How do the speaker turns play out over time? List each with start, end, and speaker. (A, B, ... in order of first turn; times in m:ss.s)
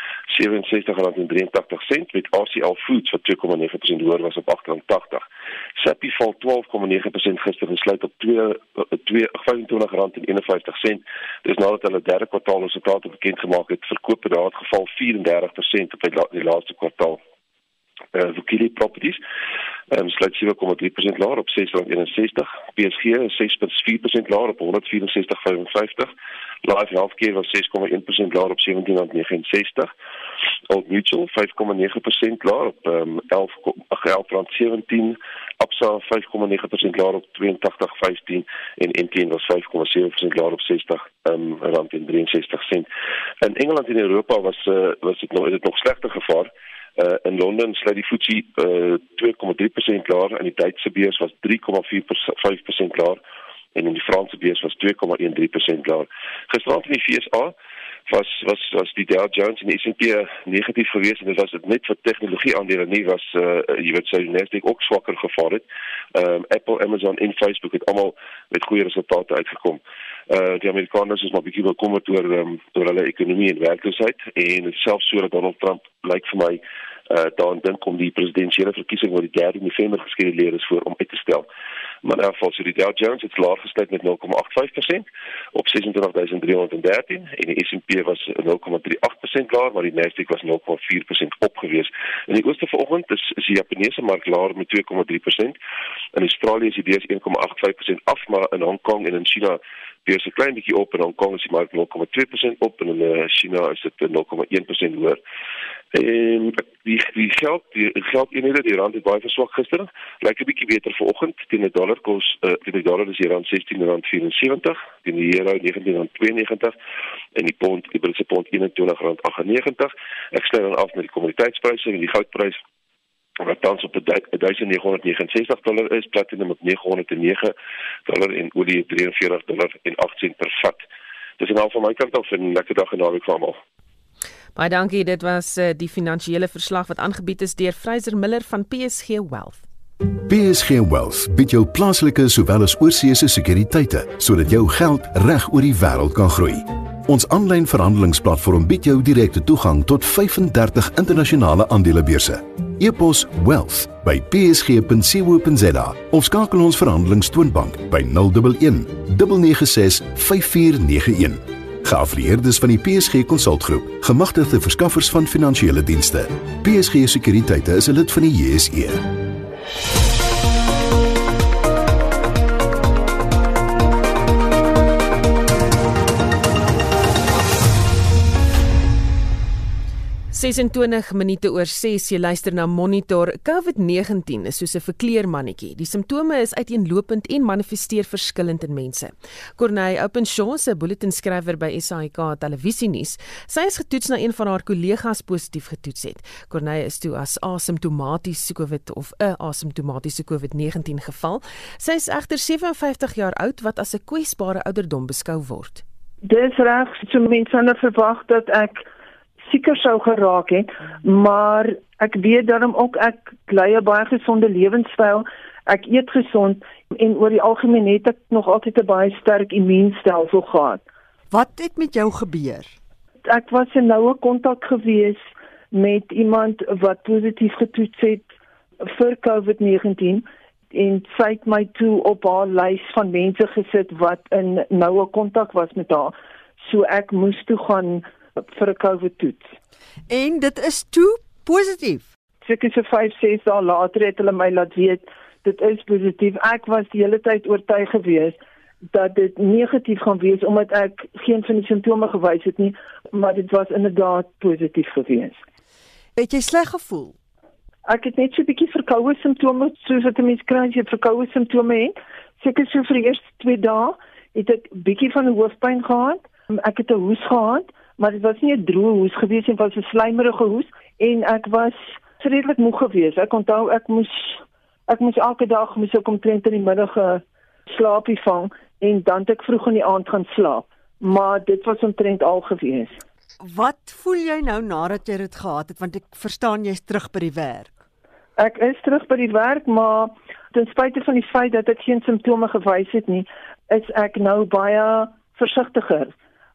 0:00.3-0:05.2 A
0:05.8-0:17.2 A
0:18.1-0:19.2 A
0:19.9-0:26.1 A
0:26.6-0:29.9 A
0:30.7-0:42.9 A
0:43.4-0:53.2 A
0:53.7-0:57.6 A
0:58.1-1:21.5 A
1:22.0-1:35.6 A
1:36.1-1:45.2 A
1:45.9-1:56.7 A
1:57.4-2:02.6 A
2:03.4-2:07.5 A
2:08.0-2:10.8 A
2:11.4-2:13.6 A
2:14.6-2:19.6 B
2:20.2-2:49.1 C
3:00.3-3:25.8 B
3:26.2-3:28.8 D
3:29.5-3:40.8 D
3:41.3-3:42.7 E
3:43.3-3:48.3 D
3:48.8-3:59.5 D
4:00.1-4:02.1 E
4:02.4-4:08.4 D
4:08.9-4:15.4 D
4:16.2-4:17.1 E
4:17.8-4:43.0 D
4:43.4-4:47.8 E
4:48.4-4:56.1 D